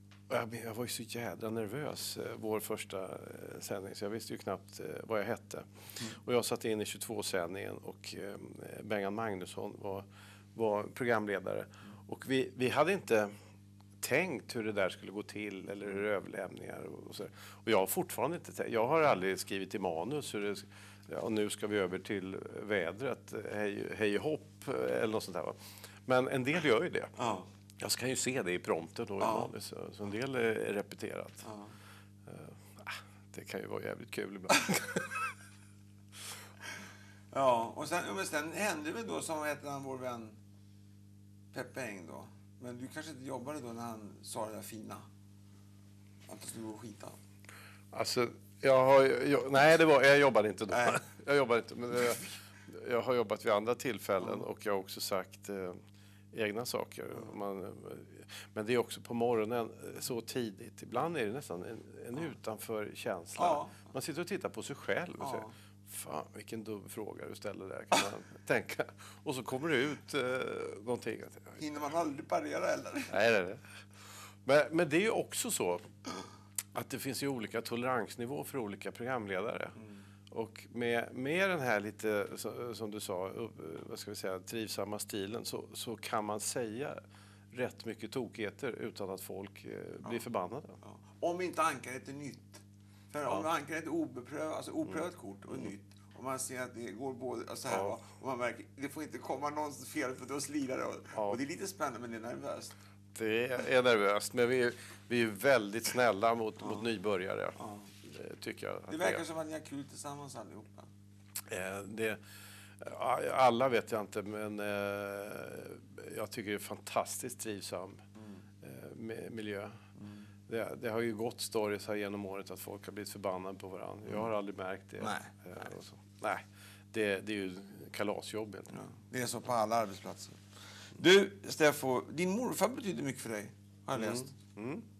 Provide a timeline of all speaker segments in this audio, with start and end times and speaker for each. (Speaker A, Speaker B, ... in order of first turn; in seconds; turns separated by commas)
Speaker A: 0.3-13.3, Speaker A: 14.0-27.1, Speaker B: 27.2-27.5, Speaker A: 27.8-31.5, Speaker B: 29.2-29.5, Speaker B: 31.4-31.7, Speaker A: 32.2-35.3, Speaker B: 37.3-40.4, Speaker B: 41.5-45.1, Speaker B: 46.3-47.1, Speaker A: 47.9-55.8, Speaker A: 56.3-71.6, Speaker B: 63.4-63.9, Speaker B: 65.2-65.5, Speaker B: 71.6-73.1, Speaker A: 73.1-73.7, Speaker A: 74.4-75.9, Speaker A: 76.7-79.8, Speaker A: 80.3-87.0, Speaker A: 87.5-90.8, Speaker B: 90.8-102.7, Speaker A: 97.7-97.9, Speaker A: 103.1-109.2, Speaker B: 107.6-107.9, Speaker B: 108.9-110.9, Speaker A: 111.5-112.2, Speaker A: 112.8-118.0, Speaker A: 118.6-119.8, Speaker A: 120.5-128.7, Speaker B: 125.0-125.3, Speaker B: 128.7-130.4, Speaker B: 130.9-134.3, Speaker A: 133.9-134.8